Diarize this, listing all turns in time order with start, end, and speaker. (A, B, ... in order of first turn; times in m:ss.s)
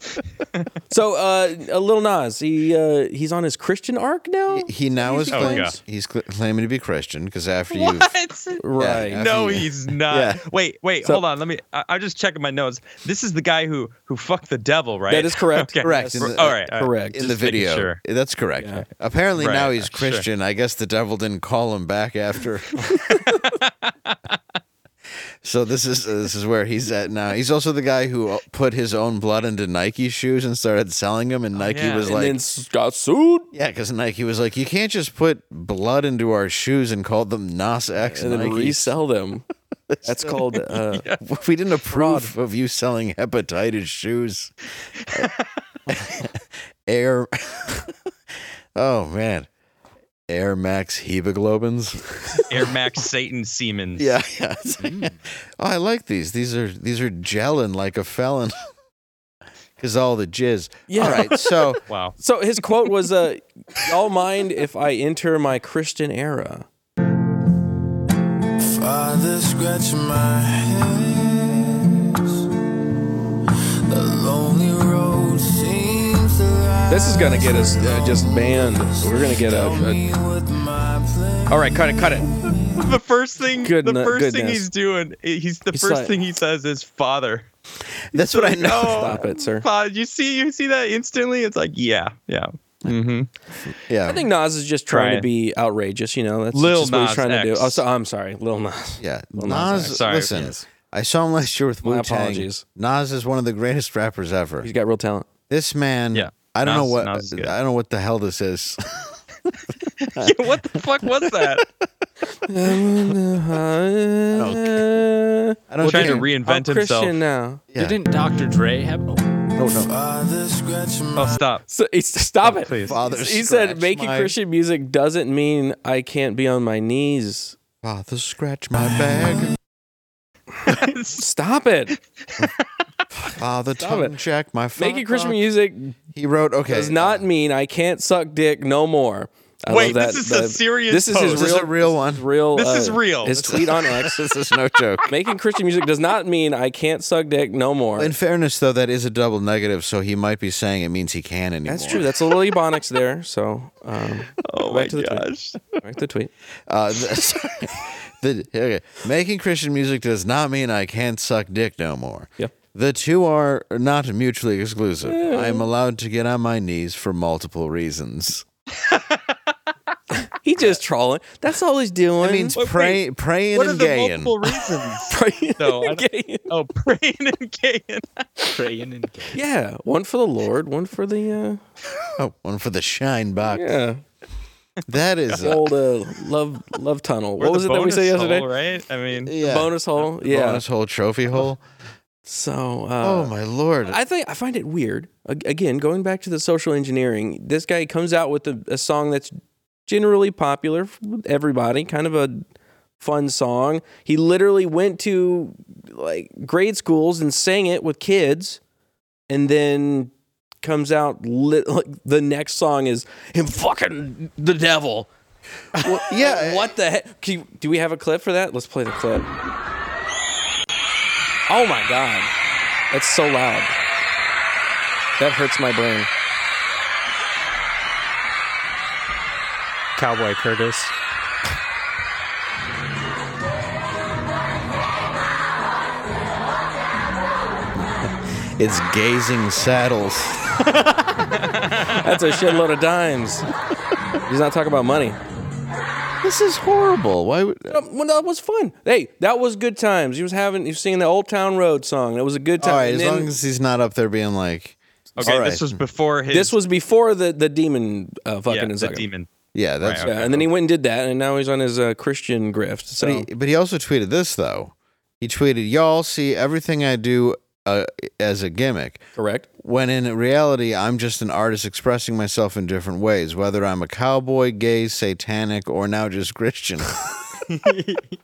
0:00.9-0:05.8 A
0:04.5-0:08.2 B
0:05.3-0:05.7 C
0:07.7-0:08.6 C
0:08.6-0:09.2 A
0:08.8-0:10.4 B
0:09.1-0:18.0 C
0:15.1-0:17.2 A
0:15.8-0:22.9 B
0:18.6-0:18.8 A
0:19.4-0:20.2 C
0:23.0-0:24.2 C
0:25.4-0:32.4 B
0:31.6-0:32.1 C
0:32.1-0:33.5 A
0:33.5-0:39.0 B
0:38.1-0:39.5 A
0:39.9-0:44.5 B
0:40.0-0:41.1 A
0:41.9-0:42.3 A
0:45.1-0:45.4 C
0:45.9-0:47.9 B
0:48.8-0:49.5 B
0:50.3-0:52.7 B
0:52.5-0:54.1 C
0:54.0-0:58.6 B
0:59.8-1:01.8 B
1:00.9-1:01.4 A
1:01.9-1:02.2 C
1:02.2-1:06.7 A
1:08.6-1:12.2 D
1:13.9-1:23.0 D
1:16.9-1:20.0 A
1:21.5-1:22.3 A
1:22.7-1:27.5 C
1:23.6-1:24.7 A
1:25.7-1:26.1 A
1:28.1-1:29.2 B
1:28.2-1:33.3 C
1:28.8-1:29.7 A
1:33.9-1:34.2 B
1:34.1-1:40.0 A
1:34.9-1:35.3 C
1:36.5-1:37.8 C
1:39.0-1:44.7 B
1:39.9-1:40.3 C
1:40.3-1:40.6 E
1:41.8-1:42.6 A
1:44.6-1:45.3 A
1:45.5-1:49.2 B
1:46.1-1:47.5 C
1:50.0-1:51.7 C
1:50.2-1:51.6 B
1:52.5-1:57.6 A
1:54.3-1:54.9 B
1:55.7-1:56.3 B
1:55.8-1:57.2 C
1:57.7-1:58.0 B
1:57.8-1:59.4 E
1:59.6-1:59.9 B
1:59.9-2:01.4 D
2:01.2-2:01.6 C
2:01.7-2:07.6 A
2:02.4-2:03.0 C
2:02.8-2:04.4 B
2:07.8-2:09.5 B
2:10.7-2:11.3 C
2:11.2-2:11.9 A
2:12.2-2:12.7 C
2:13.4-2:15.5 B
2:13.8-2:14.1 A
2:14.8-2:16.0 A
2:16.1-2:17.2 B
2:16.7-2:24.2 A
2:19.7-2:21.5 C
2:21.3-2:22.2 B
2:22.6-2:23.4 C
2:23.3-2:25.2 B
2:25.1-2:28.1 A
2:28.0-2:32.1 B
2:31.7-2:36.3 A
2:34.4-2:35.6 C
2:36.7-2:48.4 B
2:45.1-2:45.7 A
2:48.8-2:49.4 C
2:50.2-2:52.6 A
2:52.2-2:54.6 B
2:52.6-2:53.0 C
2:53.5-2:58.5 C
2:55.1-2:56.5 A
2:58.5-2:59.4 E
2:59.3-3:01.6 A
3:02.1-3:03.8 B
3:03.5-3:04.0 A
3:04.9-3:05.7 B
3:05.4-3:08.5 A
3:07.4-3:09.3 C
3:09.2-3:11.6 B
3:09.4-3:10.6 A
3:12.3-3:13.3 A
3:13.0-3:14.0 B
3:13.8-3:22.4 A
3:23.0-3:28.6 A
3:29.3-3:30.1 A
3:30.6-3:35.1 A
3:35.8-3:36.7 B
3:35.8-3:39.3 A
3:41.5-3:42.3 A
3:42.9-3:43.8 A
3:45.2-3:46.1 A
3:50.0-3:50.9 E
3:57.8-4:00.7 B
4:01.4-4:02.0 C
4:01.9-4:03.5 A
4:04.3-4:05.2 A
4:06.2-4:07.8 B
4:07.7-4:13.3 A
4:12.6-4:15.8 B
4:15.2-4:16.6 C
4:16.3-4:19.1 A
4:18.5-4:19.3 C
4:19.5-4:20.4 B
4:19.8-4:20.2 C
4:20.0-4:23.3 A
4:23.0-4:29.1 B
4:29.2-4:29.5 A
4:29.6-4:37.0 B
4:37.6-4:37.9 A